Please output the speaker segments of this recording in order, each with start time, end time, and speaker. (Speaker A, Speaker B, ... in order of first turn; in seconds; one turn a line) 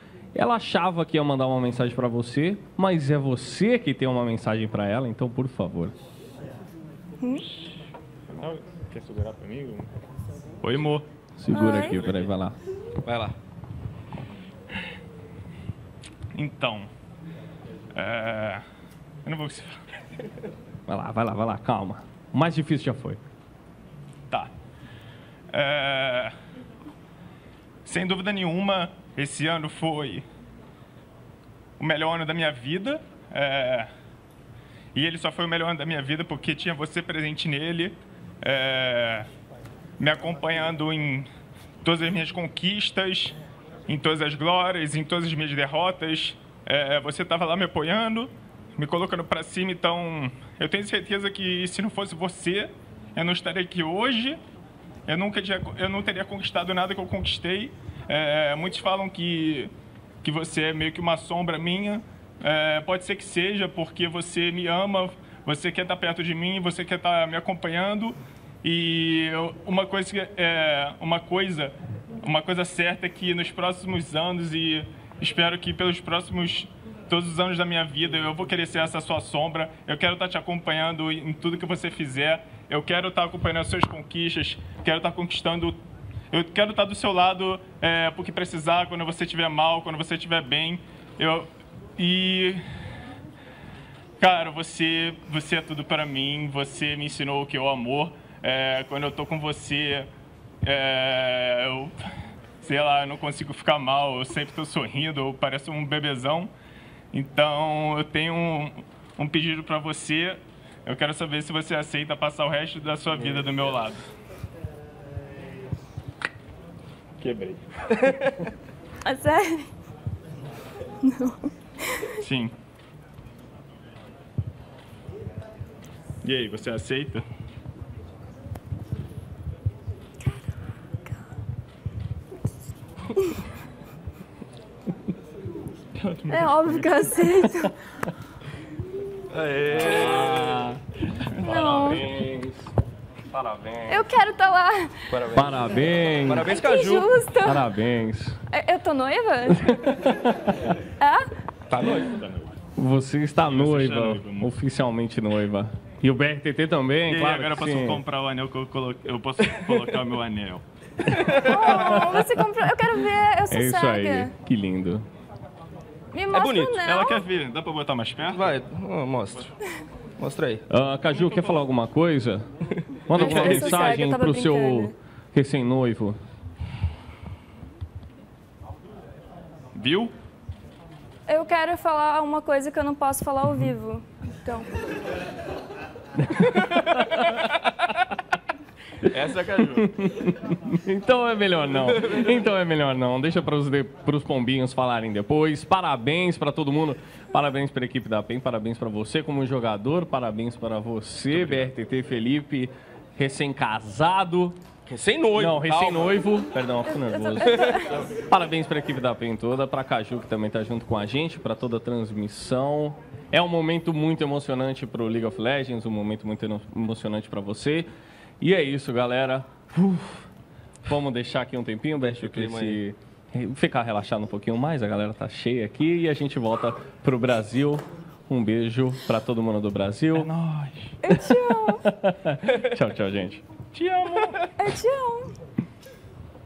Speaker A: 0.3-6.0
Speaker B: 7.2-7.5
Speaker C: 8.3-9.9
Speaker C: 10.6-11.0
Speaker A: 11.4-12.6
Speaker B: 11.5-12.0
Speaker D: 13.0-13.3
Speaker C: 16.3-16.9
Speaker C: 17.9-18.6
Speaker C: 19.2-19.8
Speaker A: 20.9-23.2
Speaker C: 25.5-26.3
Speaker C: 27.9-30.2
Speaker C: 31.8-33.9
Speaker C: 34.9-39.3
Speaker C: 40.0-41.3
Speaker C: 41.8-54.4
Speaker C: 55.1-59.7
Speaker C: 60.2-85.8
Speaker C: 86.3-92.6
Speaker C: 94.2-100.1
Speaker C: 100.6-102.0
Speaker C: 102.6-106.5
Speaker C: 107.1-114.0
Speaker C: 117.2-118.1
Speaker B: 119.0-119.7
Speaker B: 121.0-122.2
Speaker C: 122.2-122.5
Speaker C: 126.2-127.2
Speaker B: 130.2-131.2
Speaker C: 135.9-137.3
Speaker B: 136.3-137.8
Speaker D: 139.3-140.6
Speaker A: 139.7-142.7
Speaker B: 141.4-142.0
Speaker A: 143.3-144.0
Speaker B: 143.9-145.2
Speaker D: 145.1-147.2
Speaker A: 145.2-146.5
Speaker B: 146.4-147.7
Speaker A: 147.4-148.4
Speaker B: 148.5-149.7
Speaker A: 149.6-150.7
Speaker B: 151.0-151.3
Speaker D: 151.7-152.2
Speaker C: 151.8-152.5
Speaker A: 152.8-158.0
Speaker C: 153.4-154.5
Speaker C: 157.1-160.6
Speaker D: 161.2-161.5
Speaker B: 161.4-164.3
Speaker A: 161.8-162.2
Speaker A: 163.5-165.0
Speaker B: 166.1-167.2
Speaker D: 166.3-166.8
Speaker C: 166.8-168.5
Speaker D: 168.3-169.5
Speaker D: 170.2-170.6
Speaker A: 170.7-172.4
Speaker D: 172.9-173.9
Speaker A: 173.1-176.2
Speaker B: 173.2-174.9
Speaker C: 179.7-180.1
Speaker B: 181.3-184.9
Speaker A: 186.4-187.5
Speaker D: 189.1-189.9
Speaker A: 189.8-204.6
Speaker D: 191.9-192.4
Speaker D: 201.3-201.7
Speaker D: 204.8-206.4
Speaker A: 205.3-217.9
Speaker B: 206.8-208.0
Speaker D: 207.5-208.0
Speaker A: 218.4-220.3
Speaker A: 220.8-230.3
Speaker D: 222.1-222.8
Speaker C: 230.1-231.0
Speaker B: 231.0-231.8
Speaker A: 231.4-233.4
Speaker C: 233.7-234.5
Speaker B: 234.6-235.3